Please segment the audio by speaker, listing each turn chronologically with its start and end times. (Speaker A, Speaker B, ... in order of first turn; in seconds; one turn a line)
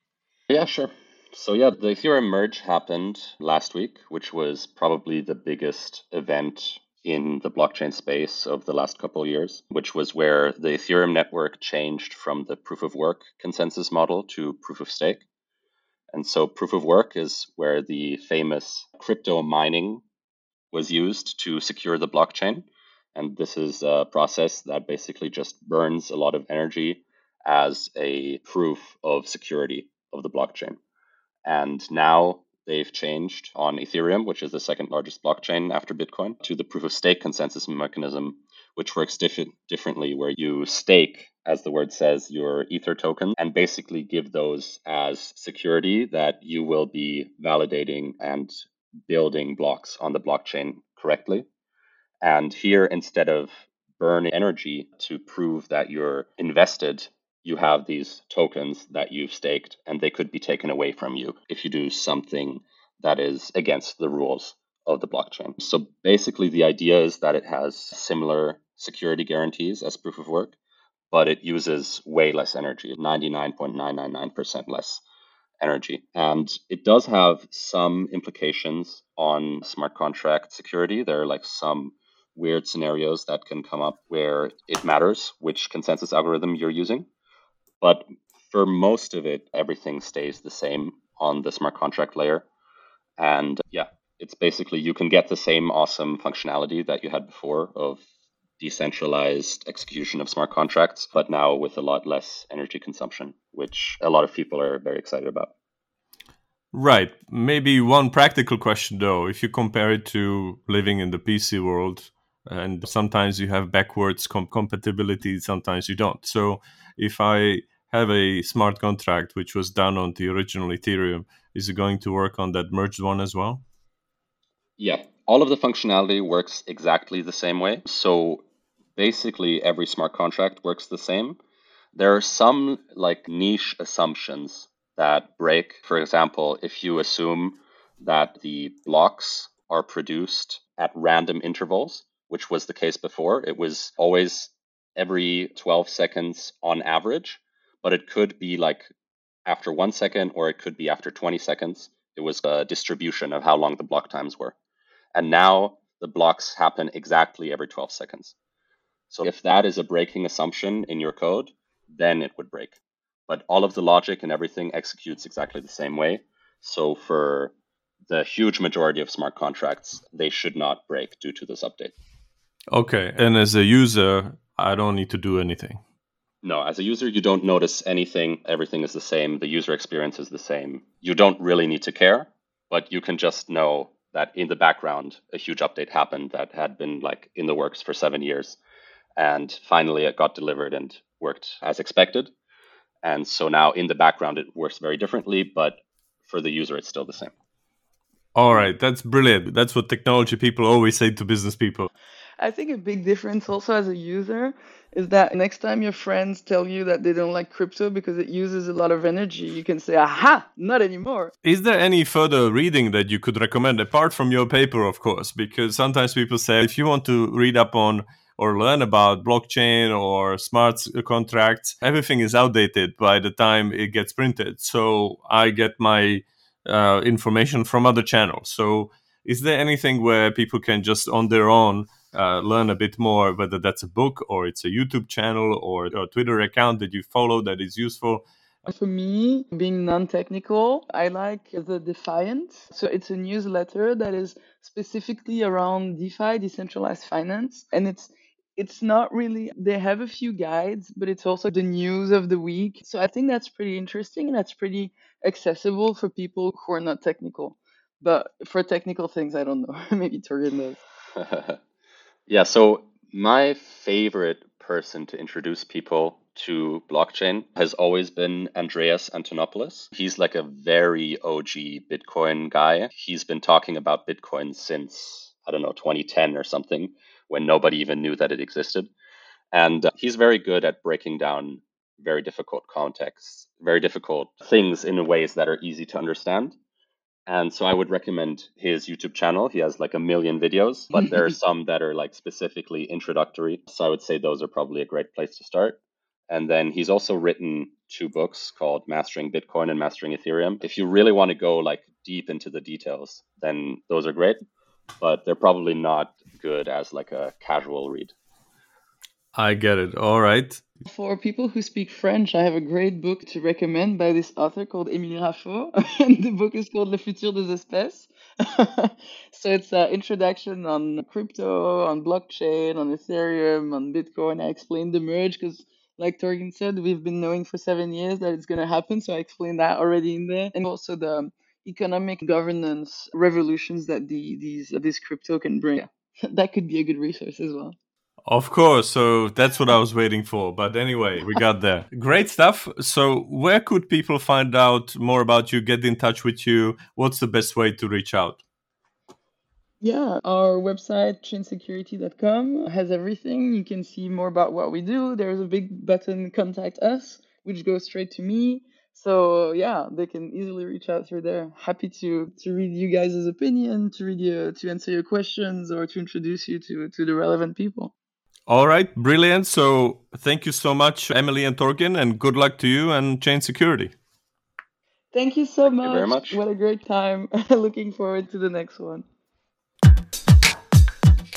Speaker A: 0.5-15.2
Speaker A: 16.1-20.0
Speaker A: 20.7-30.8
Speaker A: 31.4-51.5
Speaker A: 52.2-70.5
Speaker A: 71.1-75.0
Speaker A: 75.6-87.1
Speaker A: 87.8-92.5
Speaker A: 93.2-98.0
Speaker A: 98.6-105.5
Speaker B: 106.7-123.6
Speaker A: 124.8-128.4
Speaker A: 128.9-131.4
Speaker A: 131.9-148.9
Speaker A: 149.4-154.5
Speaker A: 155.1-158.3
Speaker A: 159.1-162.8
Speaker A: 163.3-167.5
Speaker A: 168.1-171.9
Speaker B: 172.7-175.8
Speaker A: 176.4-188.6
Speaker A: 189.2-192.3
Speaker A: 193.0-197.3
Speaker B: 198.3-201.9
Speaker C: 202.4-211.3
Speaker B: 211.4-238.7
Speaker C: 238.7-260.8
Speaker A: 261.1-261.6
Speaker A: 262.3-278.9
Speaker A: 279.5-286.6
Speaker A: 287.3-304.4
Speaker A: 305.0-308.1
Speaker B: 309.3-310.6
Speaker C: 310.8-337.8
Speaker B: 338.3-348.4
Speaker C: 349.8-367.9
Speaker B: 368.5-373.9
Speaker C: 375.1-379.0
Speaker A: 375.8-376.4